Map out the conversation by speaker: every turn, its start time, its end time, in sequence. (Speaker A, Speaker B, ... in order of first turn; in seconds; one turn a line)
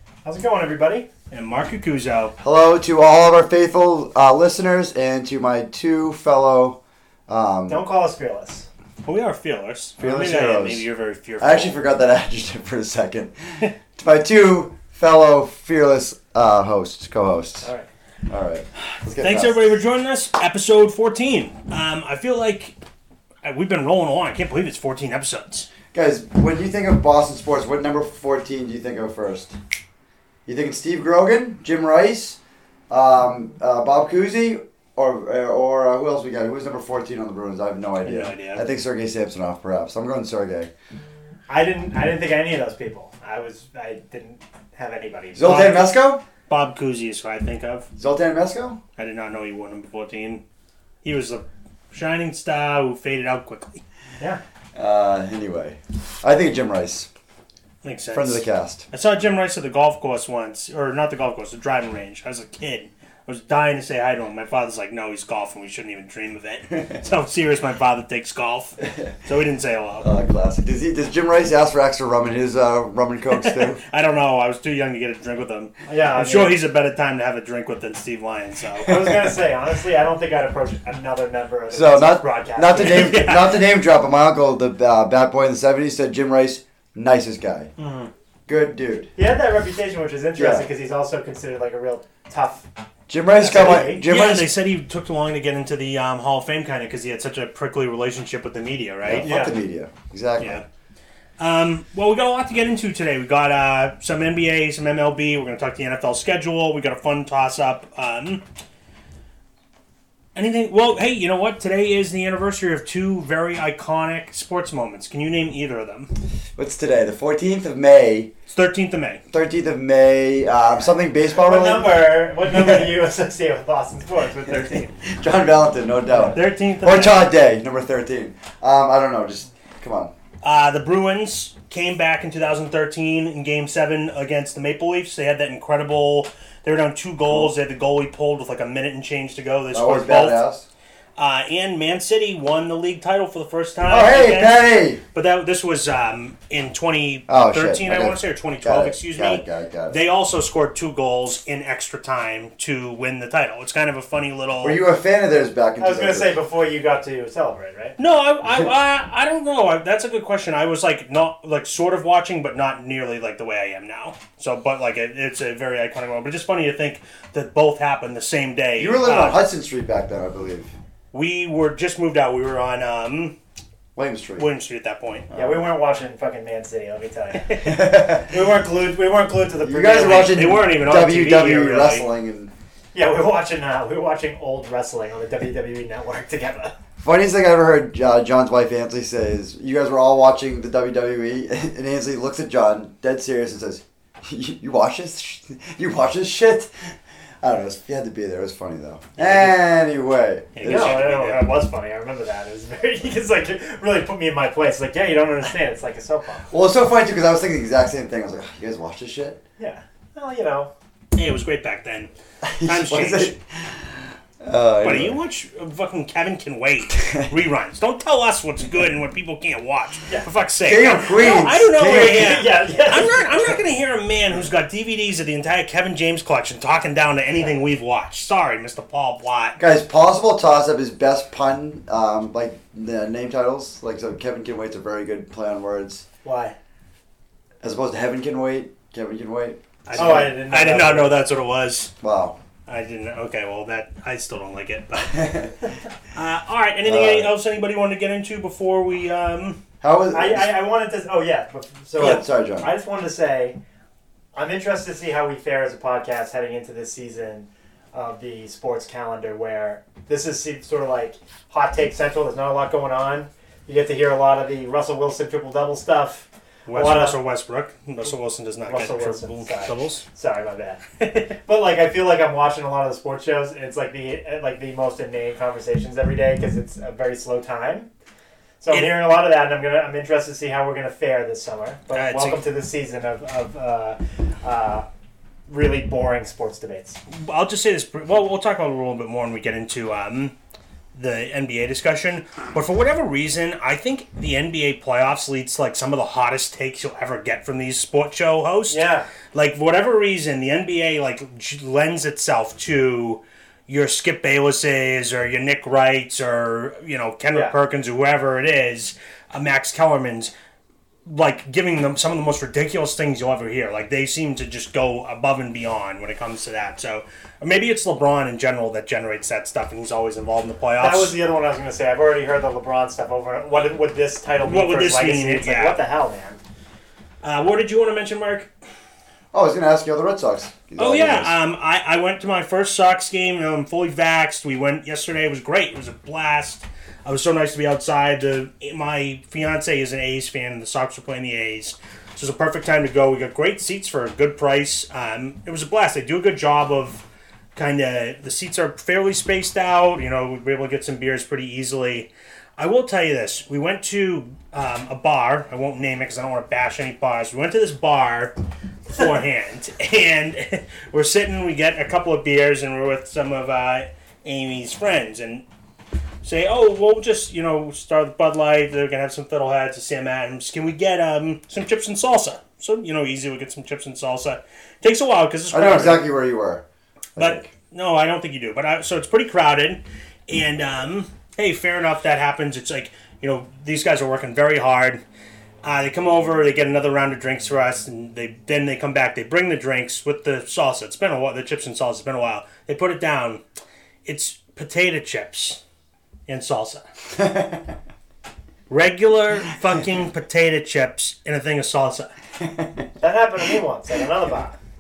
Speaker A: 0.2-1.1
Speaker B: 1.3-2.3
Speaker C: 2.4-7.8
Speaker A: 7.7-8.7
Speaker B: 9.1-11.8
Speaker C: 10.0-10.9
Speaker C: 11.4-17.7
Speaker C: 18.3-19.6
Speaker B: 19.2-22.8
Speaker B: 23.4-25.7
Speaker C: 25.9-29.6
Speaker C: 30.5-32.4
Speaker C: 32.9-40.7
Speaker B: 38.0-38.6
Speaker A: 41.5-45.8
Speaker C: 45.4-46.2
Speaker B: 45.5-45.8
Speaker B: 46.5-47.9
Speaker C: 48.0-48.8
Speaker B: 49.0-50.4
Speaker B: 51.0-53.8
Speaker C: 54.8-57.1
Speaker B: 57.8-70.1
Speaker C: 58.1-58.9
Speaker C: 70.0-73.8
Speaker B: 73.3-79.1
Speaker A: 75.9-76.6
Speaker A: 78.8-83.3
Speaker C: 81.7-87.7
Speaker B: 82.8-83.6
Speaker A: 87.8-88.1
Speaker C: 88.5-89.1
Speaker A: 89.2-92.7
Speaker C: 90.4-90.7
Speaker C: 93.1-94.5
Speaker A: 93.4-94.1
Speaker B: 93.7-99.4
Speaker C: 99.0-100.7
Speaker A: 99.2-99.6
Speaker B: 101.4-108.4
Speaker B: 110.3-116.1
Speaker C: 116.6-118.3
Speaker B: 118.5-119.2
Speaker C: 119.3-122.0
Speaker A: 120.7-124.9
Speaker C: 122.5-123.0
Speaker C: 124.7-130.1
Speaker A: 126.1-126.4
Speaker B: 126.3-127.3
Speaker B: 130.4-140.4
Speaker C: 139.7-140.7
Speaker B: 141.2-154.8
Speaker C: 143.8-145.0
Speaker C: 147.3-150.0
Speaker C: 154.6-156.4
Speaker A: 155.8-158.0
Speaker B: 158.0-169.4
Speaker C: 168.8-170.7
Speaker B: 171.1-173.4
Speaker C: 174.0-174.5
Speaker B: 174.4-175.3
Speaker C: 175.3-175.6
Speaker A: 175.3-180.4
Speaker B: 177.5-177.8
Speaker C: 177.6-178.3
Speaker C: 179.6-182.5
Speaker B: 180.2-182.1
Speaker A: 182.9-186.8
Speaker C: 187.0-201.0
Speaker A: 199.2-199.5
Speaker B: 200.6-201.4
Speaker A: 200.6-206.5
Speaker C: 206.5-209.4
Speaker A: 209.6-210.7
Speaker B: 211.2-212.1
Speaker C: 212.4-215.2
Speaker B: 212.6-213.3
Speaker B: 214.8-229.6
Speaker C: 220.7-222.4
Speaker A: 221.8-223.4
Speaker C: 229.6-236.1
Speaker A: 236.2-236.6
Speaker C: 237.6-240.3
Speaker B: 239.8-241.9
Speaker A: 239.9-241.2
Speaker C: 242.0-242.4
Speaker B: 242.7-245.5
Speaker C: 245.1-245.5
Speaker B: 246.1-249.6
Speaker C: 246.8-247.3
Speaker C: 249.8-250.5
Speaker A: 250.1-253.6
Speaker C: 252.0-252.7
Speaker A: 254.3-267.2
Speaker B: 266.7-270.1
Speaker A: 268.7-270.8
Speaker B: 271.0-271.4
Speaker A: 271.5-277.9
Speaker A: 278.6-284.9
Speaker B: 278.7-279.0
Speaker B: 281.9-282.4
Speaker A: 285.5-287.0
Speaker B: 287.1-290.4
Speaker B: 290.9-310.3
Speaker A: 298.7-299.1
Speaker B: 311.1-321.1
Speaker A: 320.8-326.4
Speaker B: 324.4-325.8
Speaker B: 327.2-328.5
Speaker C: 329.3-331.3
Speaker B: 330.8-358.4
Speaker B: 358.9-365.4
Speaker B: 366.2-376.1
Speaker C: 375.5-376.6
Speaker C: 377.2-377.5
Speaker B: 377.2-385.0
Speaker B: 385.6-393.4
Speaker B: 394.1-395.6
Speaker B: 396.3-396.8
Speaker C: 397.1-397.8
Speaker B: 398.7-402.1
Speaker C: 402.4-402.9
Speaker A: 403.0-404.6